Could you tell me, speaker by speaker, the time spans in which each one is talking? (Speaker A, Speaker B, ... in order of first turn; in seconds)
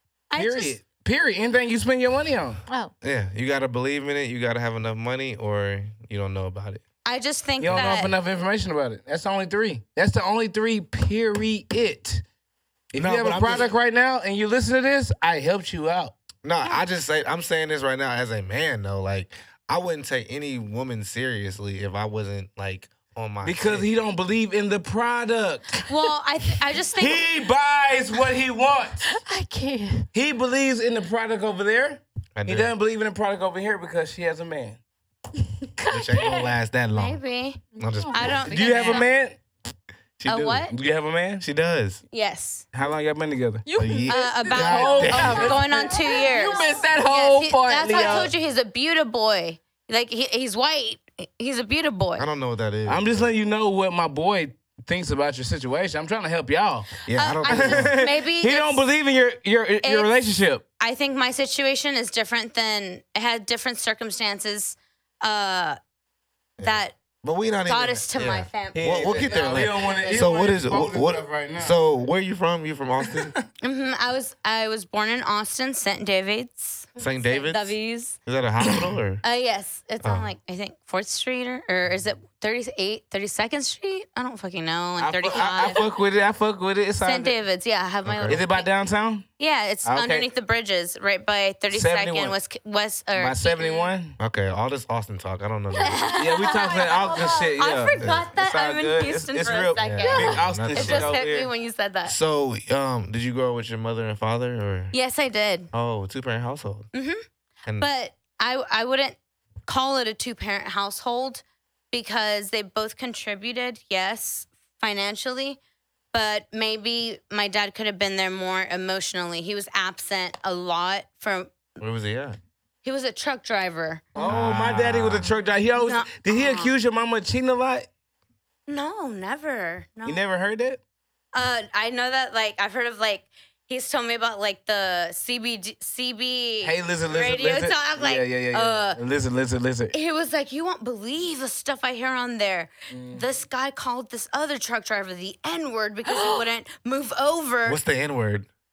Speaker A: 0.3-0.8, 7.0-8.1, 25.9-27.3, 37.0-37.6, 38.1-39.1, 40.2-40.7, 42.1-42.7, 44.1-52.3, 57.1-58.9, 59.8-60.1, 60.8-65.8, 66.6-67.0, 67.7-70.3, 73.6-78.2, 79.2-85.9, 87.0-88.7, 89.4-93.9, 95.8-102.2, 104.9-105.7, 106.9-107.2, 107.8-115.6, 116.1-121.6, 122.8-124.0, 125.8-126.7, 128.7-130.2, 131.3-139.0, 139.9-147.8
Speaker B: 0.4-2.6, 7.6-12.2, 12.9-16.1, 23.4-25.9, 27.0-29.1, 30.1-34.8, 38.5-39.4, 40.7-41.5, 42.7-43.6, 44.7-45.6, 47.9-48.3, 52.9-60.6, 68.8-71.8, 73.0-73.4, 85.0-87.4, 88.3-89.3, 89.8-90.3, 91.7-92.4, 93.2-94.2, 96.2-101.5, 124.1-127.9, 130.1-130.8, 136.6-139.9, 142.9-143.3
Speaker C: 3.0-6.8, 13.0-13.7, 16.4-23.9, 32.4-32.7, 35.9-37.2, 37.8-38.5, 40.2-40.7, 41.4-42.0, 43.8-45.6, 52.2-53.3, 57.1-58.0, 66.6-73.3, 77.0-79.2, 80.0-80.3, 88.0-88.4, 94.2-96.2, 98.0-98.3, 99.8-101.2, 102.1-104.9, 105.7-106.9, 121.8-122.4, 124.2-125.3, 147.7-148.5
Speaker D: 29.1-30.1, 45.8-46.7, 96.0-97.5, 100.0-100.4
Speaker E: 35.8-36.5, 37.7-39.1, 43.6-48.3